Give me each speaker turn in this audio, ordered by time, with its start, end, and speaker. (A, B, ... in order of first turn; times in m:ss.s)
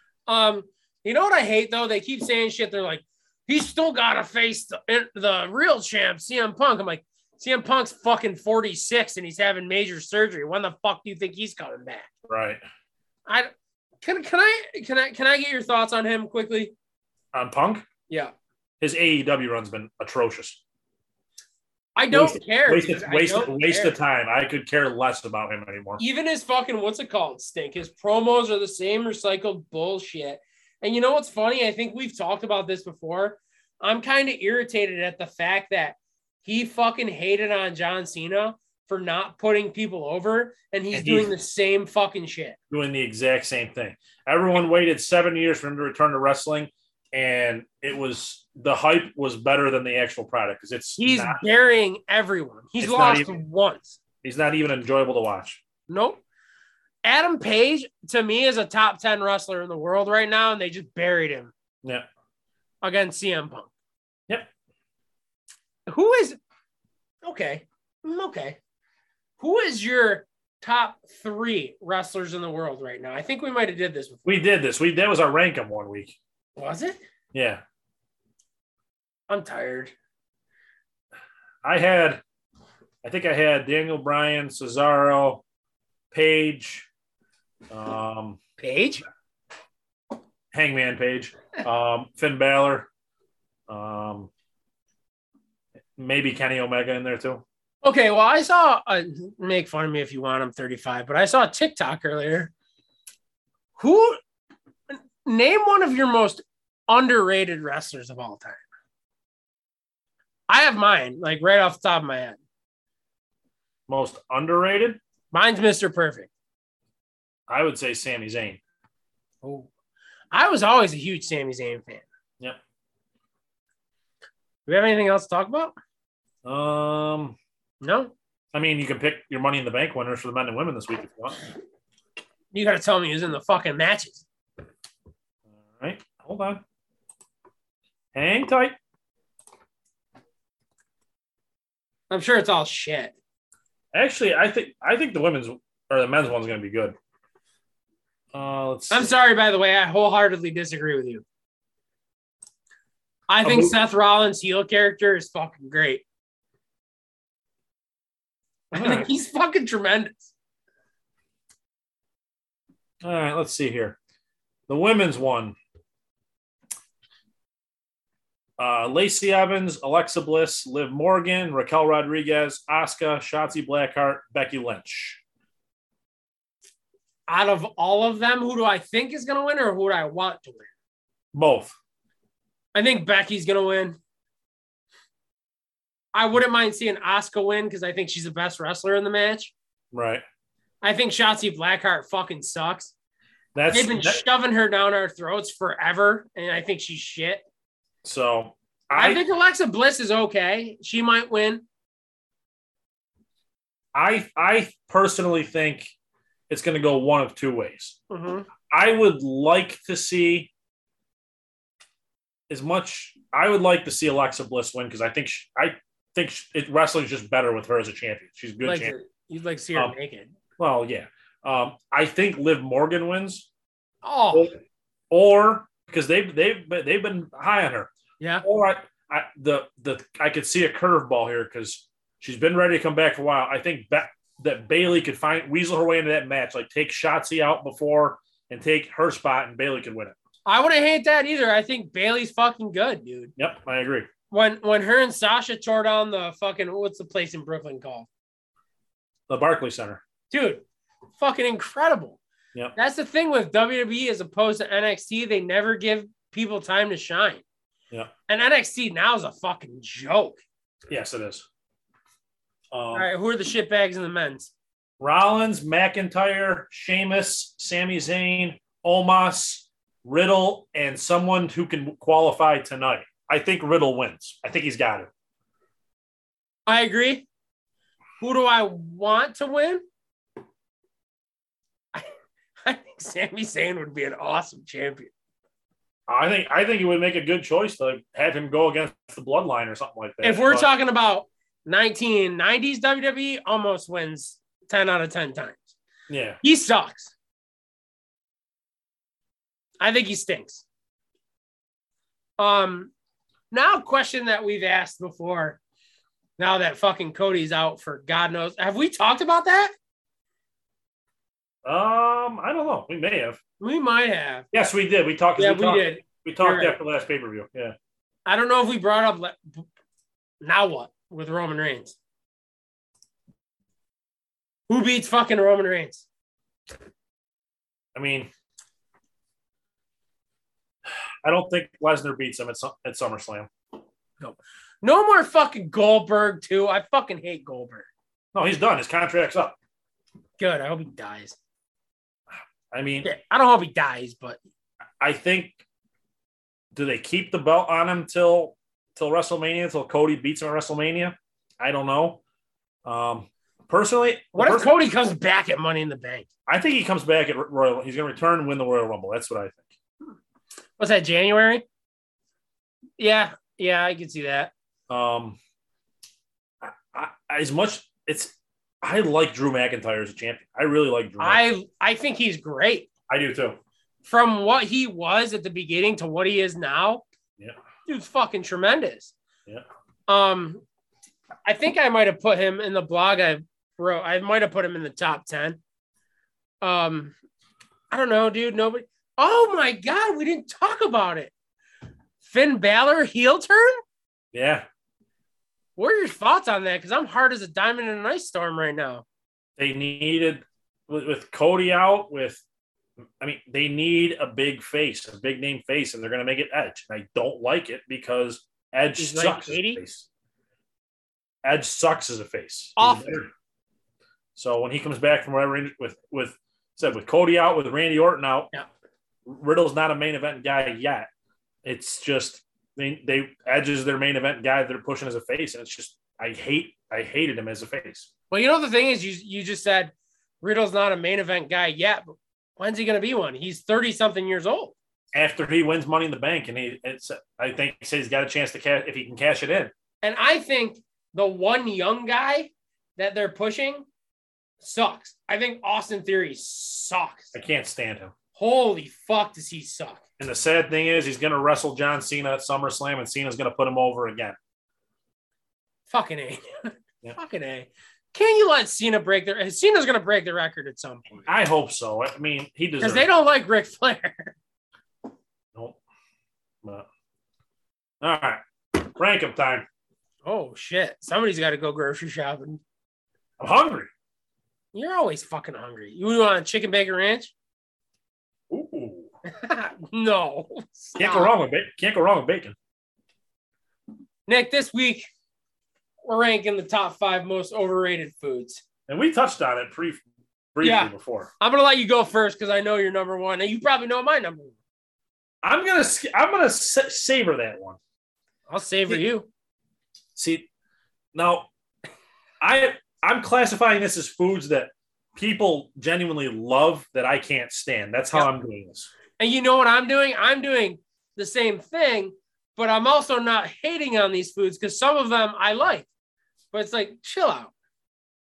0:00.3-0:12.1 A
0:12.3-0:12.6 B
0:14.0-0:16.7 A
0:17.3-0:17.8 B
0:18.1-0:18.3 A
0:18.8-0:20.6 B
0:22.0-0:23.9 A
0:22.1-0:26.0 B
0:26.0-0:42.6 A
0:40.9-0:41.3 B
0:42.7-0:51.4 B
0:51.0-0:54.0 A
0:52.8-0:53.3 B
0:54.2-0:55.6 B
0:55.9-0:56.2 A
0:57.0-1:01.5 A
1:02.8-1:03.7 A
1:05.9-1:06.4 A
1:07.2-1:08.6 A
1:09.4-1:14.3 A
1:14.2-1:16.2 B
1:16.6-1:17.0 A
1:17.3-1:17.6 B
1:19.3-1:19.9 A
1:21.6-1:22.2 B
1:23.0-1:25.4 B
1:26.1-1:26.9 B
1:27.7-1:28.4 B
1:28.6-1:29.0 A
1:30.5-1:32.9 B
1:33.7-1:34.3 B
1:36.0-1:37.4 B
1:37.8-1:42.5 A
1:43.8-1:44.2 A
1:44.9-1:48.6 A
1:50.5-1:52.4 A
1:53.9-1:55.0 B
1:55.3-1:56.3 A
1:57.5-1:58.6 B
1:59.4-1:59.7 A
2:00.3-2:02.0 A
2:04.6-2:05.7 A
2:06.4-2:07.4 B
2:07.8-2:08.1 A
2:08.5-2:11.4 B
2:12.5-2:14.2 A
2:15.7-2:16.6 B
2:18.1-2:18.8 B
2:22.1-2:23.1 A
2:23.9-2:26.9 B
2:28.3-2:29.1 B
2:28.9-2:31.2 A
2:33.3-2:36.0 A
2:33.4-2:33.8 B
2:38.7-2:40.3 A
2:38.7-2:39.1 B
2:43.0-2:44.0 B
2:44.7-2:45.6 B
2:48.6-2:55.2 B
2:57.3-3:00.7 A
3:01.3-3:01.7 B
3:02.7-3:04.0 A
3:06.1-3:09.5 A
3:09.9-3:10.2 B
3:10.8-3:12.9 A
3:13.5-3:14.2 B
3:13.7-3:17.4 A
3:18.0-3:19.2 B
3:18.9-3:21.6 A
3:23.9-3:25.9 B
3:26.5-3:28.0 B
3:28.1-3:28.5 A
3:28.7-3:30.5 B
3:32.5-3:38.9 B
3:38.6-3:40.3 A
3:40.6-3:43.5 B
3:44.0-3:44.5 A
3:45.1-3:47.9 B
3:48.2-3:48.4 A
3:48.4-4:00.1 B
4:00.4-4:03.3 A
4:03.4-4:04.1 B
4:04.3-4:08.1 A
4:09.3-4:10.0 B
4:10.3-4:10.6 A
4:11.2-4:12.2 A
4:12.8-4:17.4 A
4:18.3-4:20.4 A
4:20.9-4:21.4 B
4:22.7-4:23.1 B
4:22.9-4:24.5 A
4:25.0-4:35.1 B
4:36.7-4:37.3 A
4:38.2-4:39.8 A
4:42.6-4:45.1 A
4:46.1-4:50.7 B
4:50.2-4:55.7 A
4:56.1-4:56.4 B
4:56.4-4:57.1 A
4:59.8-5:00.6 A
5:02.4-5:02.9 A
5:03.5-5:05.6 A
5:06.4-5:09.7 A
5:11.6-5:13.4 B
5:13.6-5:14.4 A
5:14.5-5:17.7 B
5:15.4-5:16.8 A
5:18.2-5:19.6 A
5:20.4-5:21.9 A
5:24.7-5:26.0 A
5:27.9-5:28.3 B
5:31.2-5:33.5 B
5:34.2-5:37.9 A
5:38.3-5:39.6 B
5:40.4-5:41.4 A
5:42.7-5:43.1 B
5:43.0-5:44.4 A
5:45.0-5:45.6 B
5:46.7-5:52.2 B
5:52.8-5:54.7 B
5:54.3-5:56.2 A
5:56.5-5:59.7 B
6:00.8-6:01.6 A
6:03.0-6:04.5 A
6:04.9-6:05.4 B
6:06.6-6:11.4 B
6:11.2-6:12.9 A
6:13.1-6:13.6 B
6:14.0-6:17.0 A
6:17.8-6:19.1 A
6:20.1-6:20.6 A
6:21.4-6:25.6 A
6:26.6-6:27.1 A
6:27.9-6:31.3 A
6:32.2-6:33.8 A
6:34.3-6:34.6 B
6:35.8-6:39.0 A
6:39.6-6:42.4 B
6:43.2-6:50.1 B
6:49.0-6:49.8 A
6:51.4-6:53.3 B
6:52.8-6:53.2 A
6:54.4-6:58.5 B
6:59.2-7:01.1 B
7:01.6-7:08.1 B
7:08.3-7:14.7 A
7:15.1-7:19.7 B
7:20.0-7:23.8 A
7:24.6-7:27.3 A
7:27.3-7:28.1 B
7:28.3-7:30.0 A
7:30.2-7:34.4 B
7:35.9-7:41.3 A
7:41.2-7:43.1 B
7:42.8-7:44.3 A
7:48.0-7:49.6 B
7:50.2-7:52.6 A
7:53.4-7:53.9 B
7:54.7-7:57.3 A
7:58.5-7:59.1 B
7:59.3-8:01.3 A
8:01.0-8:02.6 B
8:04.3-8:05.1 A
8:06.0-8:08.6 A
8:08.9-8:10.0 B
8:10.5-8:11.3 B
8:10.6-8:14.5 A
8:15.4-8:17.8 B
8:18.5-8:19.3 A
8:20.2-8:20.5 B
8:21.1-8:21.5 B
8:22.4-8:28.9 B
8:29.2-8:35.9 A
8:36.5-8:37.5 A